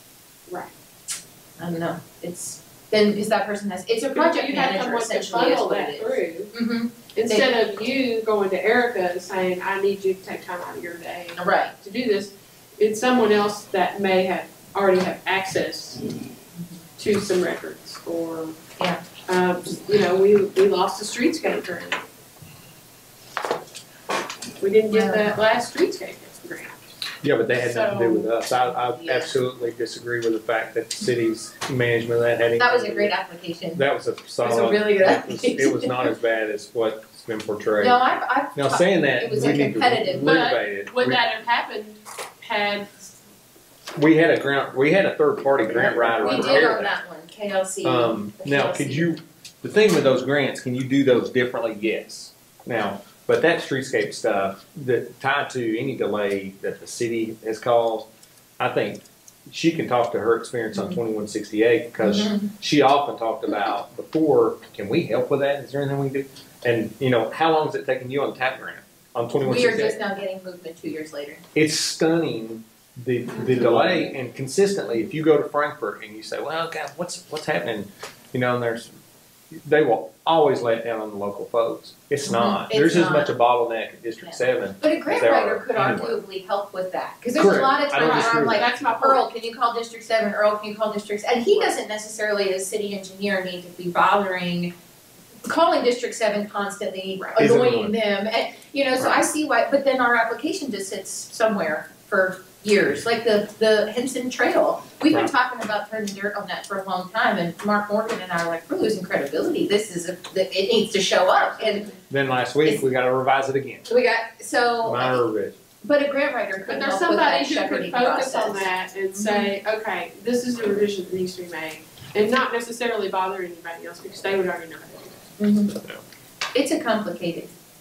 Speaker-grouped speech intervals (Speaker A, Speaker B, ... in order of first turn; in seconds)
Speaker A: 1.6-7.5, 11.4-11.7, 24.9-25.3, 28.9-29.3, 32.5-33.8, 34.4-36.1, 37.8-40.4, 46.1-49.1, 60.7-61.0, 62.0-62.5, 69.4-71.4, 82.2-83.3, 84.2-94.7, 95.5-111.9, 113.9-115.3, 115.8-119.5, 125.4-125.7, 126.5-127.5
Speaker B: 4.1-6.5, 7.1-16.2, 17.0-18.6, 19.3-22.0, 24.6-26.9, 27.6-28.3, 40.2-43.1, 88.0-89.3, 111.3-112.0, 116.7-125.3
Speaker C: 27.2-33.1, 33.7-38.0, 38.5-41.2, 44.0-46.9, 47.8-70.0, 71.5-79.0, 79.6-86.2, 87.3-88.7, 97.4-97.9, 112.1-113.8, 114.8-115.5, 125.7-126.0